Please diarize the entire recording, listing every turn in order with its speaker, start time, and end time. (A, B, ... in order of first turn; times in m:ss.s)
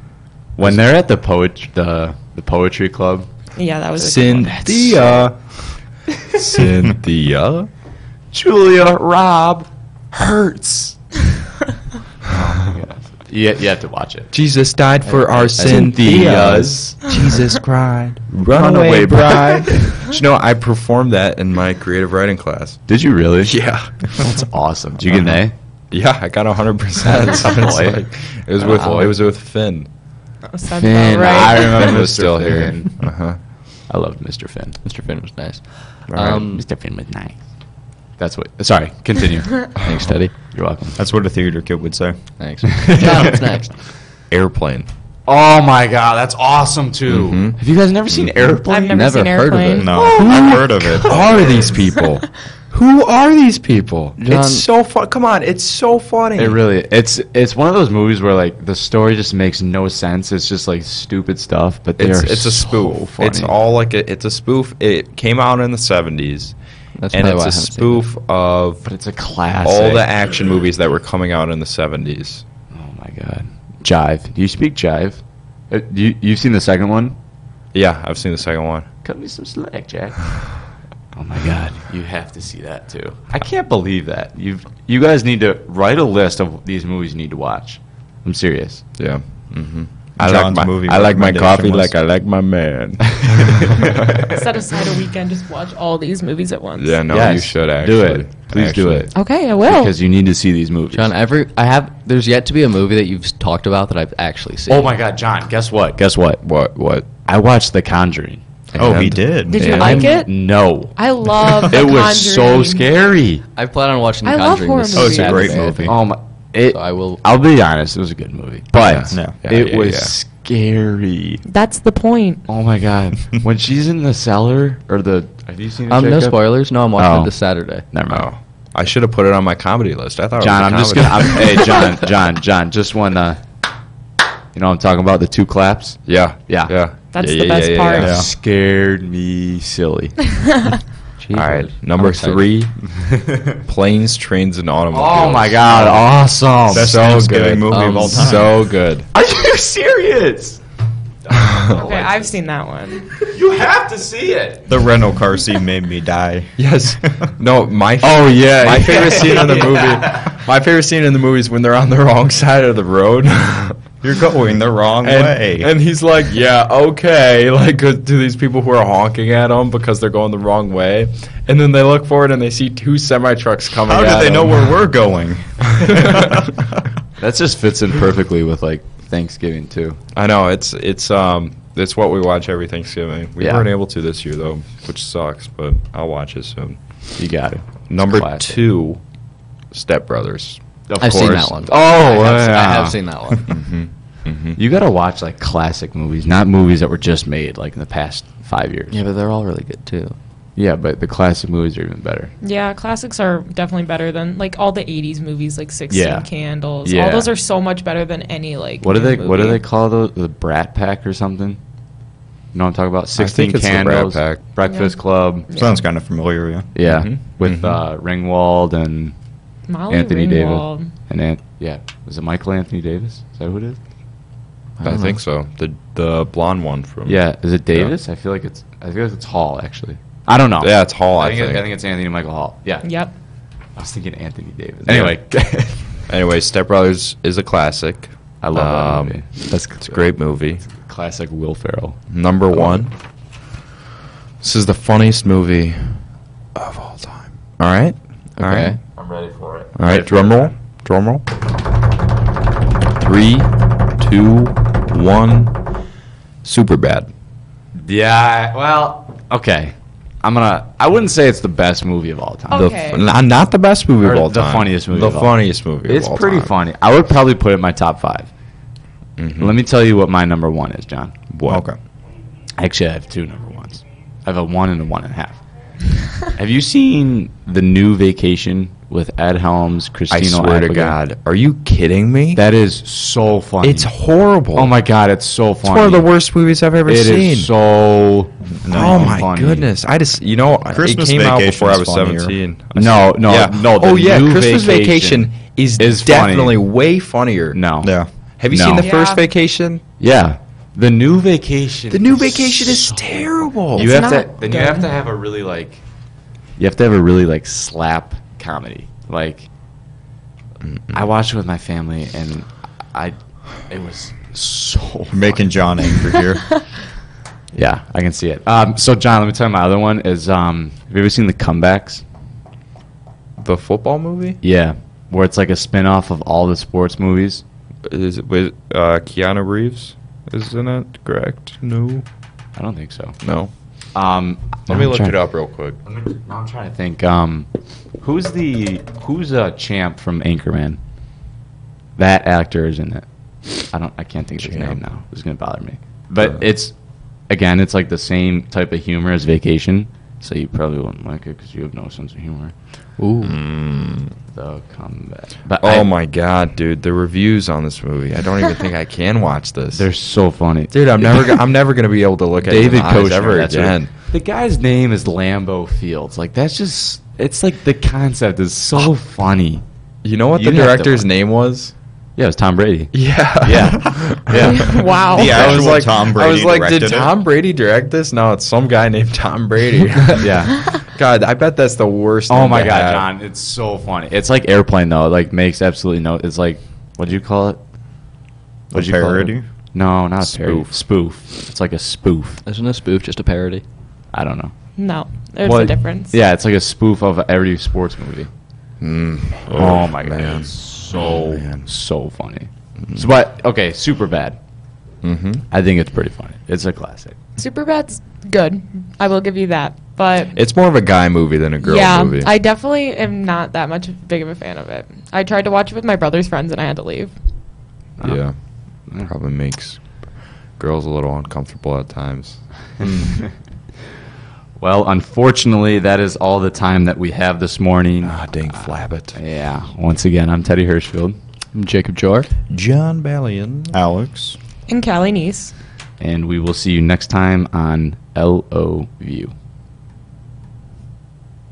0:00.6-0:03.3 A
0:03.6-0:04.6 B
0:04.0-0:07.7 C
0:04.3-0:05.3 A
0:08.3-0:11.0 A
0:12.2-0:14.3 A
0:14.3-0:22.8 C
0:15.0-0:16.4 D
0:15.6-0:17.0 A
0:18.5-0:20.0 A
0:22.9-0:23.6 A
0:23.4-0:24.3 C
0:24.1-0:25.5 A
0:25.9-0:29.9 C
0:27.1-0:28.0 A
0:28.6-0:28.9 A
0:28.7-0:29.1 D
0:30.5-0:32.0 B
0:30.7-0:33.1 A
0:31.2-0:33.4 C
0:33.9-0:34.8 A
0:34.8-0:36.6 D
0:36.1-0:36.4 C
0:36.5-0:37.4 A
0:38.2-0:39.9 A
0:39.8-0:40.2 C
0:39.8-0:40.3 D
0:40.4-0:41.0 A
0:41.0-0:42.2 E
0:42.4-0:43.7 D
0:42.7-0:43.4 A
0:44.3-0:44.9 C
0:45.2-0:49.3 A
0:47.1-0:47.6 C
0:48.1-0:48.5 C
0:48.7-0:50.1 B
0:48.9-0:50.0 D
0:49.8-0:51.7 E
0:50.0-0:51.4 A
0:50.0-0:56.6 C
0:54.2-0:54.6 D
0:56.4-1:03.5 A
1:02.0-1:06.5 C
1:07.0-1:08.0 D
1:07.1-1:08.8 C
1:08.8-1:10.0 A
1:09.6-1:12.4 C
1:12.7-1:17.2 A
1:17.7-1:18.9 C
1:19.0-1:20.4 A
1:21.1-1:28.8 A
1:29.0-1:34.3 C
1:30.2-1:31.9 E
1:33.3-1:34.2 A
1:34.3-1:37.0 B
1:36.8-1:39.1 C
1:37.1-1:41.1 A
1:39.1-1:39.9 B
1:40.9-1:44.9 D
1:44.7-1:46.4 A
1:46.4-1:47.1 C
1:47.2-1:48.4 A
1:48.7-1:50.1 C
1:48.8-1:49.8 E
1:49.5-1:52.9 B
1:49.8-1:51.0 A
1:51.6-1:53.4 A
1:53.6-1:56.1 D
1:54.2-1:55.6 B
1:54.9-1:55.9 E
1:55.8-2:01.4 A
1:56.7-1:57.2 D
1:58.7-2:00.1 C
2:01.5-2:02.5 B
2:02.5-2:07.3 A
2:05.9-2:07.9 D
2:07.8-2:08.3 A
2:08.1-2:11.8 C
2:10.4-2:13.4 A
2:14.5-2:16.7 A
2:16.1-2:18.2 C
2:17.1-2:18.2 B
2:18.0-2:18.2 E
2:18.0-2:20.2 A
2:20.4-2:20.8 B
2:21.2-2:22.4 D
2:21.3-2:22.7 C
2:22.9-2:23.6 A
2:23.6-2:26.0 C
2:24.9-2:27.0 A
2:25.7-2:26.0 E
2:26.6-2:28.6 E
2:26.7-2:29.1 C
2:27.7-2:28.4 D
2:29.1-2:30.6 A
2:31.2-2:32.3 A
2:31.3-2:31.8 C
2:31.7-2:33.2 B
2:33.2-2:34.8 A
2:34.7-2:37.2 E
2:36.6-2:43.8 C
2:38.0-2:40.3 A
2:44.0-2:45.7 E
2:45.0-2:54.8 C
2:53.9-2:56.8 E
2:55.7-2:56.4 C
2:57.2-3:00.0 A
3:00.1-3:06.8 C
3:03.4-3:03.7 A
3:07.2-3:08.6 A
3:07.9-3:09.0 C
3:09.7-3:10.6 C
3:10.9-3:13.0 A
3:11.0-3:13.5 D
3:13.5-3:14.6 C
3:14.6-3:19.0 A
3:18.9-3:20.2 D
3:20.6-3:22.3 A
3:22.4-3:29.6 B
3:25.9-3:26.3 A
3:26.8-3:27.3 A
3:28.8-3:31.6 A
3:32.5-3:35.5 A
3:33.2-3:34.4 C
3:34.6-3:35.8 B
3:35.5-3:36.7 E
3:36.7-3:39.1 A
3:36.8-3:37.8 C
3:39.7-3:40.9 B
3:39.9-3:43.8 A
3:44.8-3:47.2 C
3:44.8-3:45.1 D
3:47.0-3:52.9 A
3:50.6-3:51.6 C
3:52.8-3:53.1 B
3:53.8-3:55.9 A
3:54.8-3:55.2 C
3:56.1-4:00.6 C
3:58.4-4:02.0 A
4:02.1-4:02.9 C
4:04.4-4:06.0 C
4:06.5-4:08.8 C
4:08.4-4:08.8 D
4:09.0-4:10.5 A
4:09.8-4:11.2 C
4:13.0-4:15.6 C
4:16.4-4:17.1 C
4:17.8-4:22.6 A
4:22.5-4:23.0 B
4:22.5-4:26.5 C
4:24.0-4:28.3 A
4:29.2-4:29.6 C
4:29.4-4:31.1 A
4:31.3-4:31.6 C
4:31.4-4:31.8 E
4:32.6-4:35.4 A
4:36.2-4:41.0 A
4:40.1-4:42.4 C
4:42.4-4:43.9 A
4:43.6-4:44.7 C
4:44.5-4:46.1 A
4:45.6-4:47.5 C
4:46.8-4:49.7 A
4:48.6-4:49.2 E
4:48.7-4:57.6 C
4:50.7-4:52.4 E
4:52.7-4:56.6 A
4:57.5-4:58.0 A
4:57.8-4:58.1 E
4:58.4-4:59.8 C
4:58.5-4:58.9 A
4:58.8-4:59.2 B
5:00.0-5:05.8 A
5:01.9-5:03.9 C
5:03.8-5:04.9 B
5:06.6-5:09.5 A
5:10.6-5:11.0 C
5:10.9-5:15.4 A
5:15.1-5:16.5 E
5:17.5-5:22.0 A
5:23.4-5:24.4 C
5:24.4-5:27.4 A
5:27.8-5:32.0 C
5:32.6-5:33.2 A
5:33.2-5:33.5 C
5:33.9-5:35.2 A
5:34.7-5:35.8 C
5:35.8-5:37.5 A
5:38.0-5:40.8 A
5:42.0-5:43.0 A
5:43.6-5:46.7 A
5:44.4-5:44.8 C
5:47.3-5:52.5 A
5:53.0-5:53.3 D
5:53.2-5:54.1 C
5:54.3-5:55.9 A
5:55.6-5:59.8 C
5:59.7-6:01.3 A
6:00.7-6:03.9 C
6:02.4-6:09.6 A
6:10.0-6:11.7 C
6:10.3-6:11.0 A
6:12.2-6:15.5 A
6:12.9-6:23.1 C
6:14.3-6:15.7 B
6:15.1-6:17.1 E
6:20.2-6:20.6 A
6:22.3-6:27.6 A
6:28.7-6:29.4 E
6:28.7-6:32.4 A
6:30.2-6:30.7 C
6:32.4-6:33.6 D
6:34.1-6:34.5 A
6:34.8-6:36.2 B
6:35.4-6:38.3 A
6:38.8-6:41.7 C
6:39.5-6:44.4 A
6:45.0-6:45.4 C
6:45.5-6:47.2 A
6:47.4-6:50.4 B
6:50.3-6:52.3 C
6:51.6-6:57.1 B
6:58.0-7:03.1 C
7:02.8-7:03.3 A
7:04.6-7:11.2 A
7:08.0-7:09.2 C
7:11.5-7:12.3 D
7:12.5-7:13.8 C
7:13.7-7:14.4 E
7:14.7-7:15.5 B
7:16.0-7:19.3 A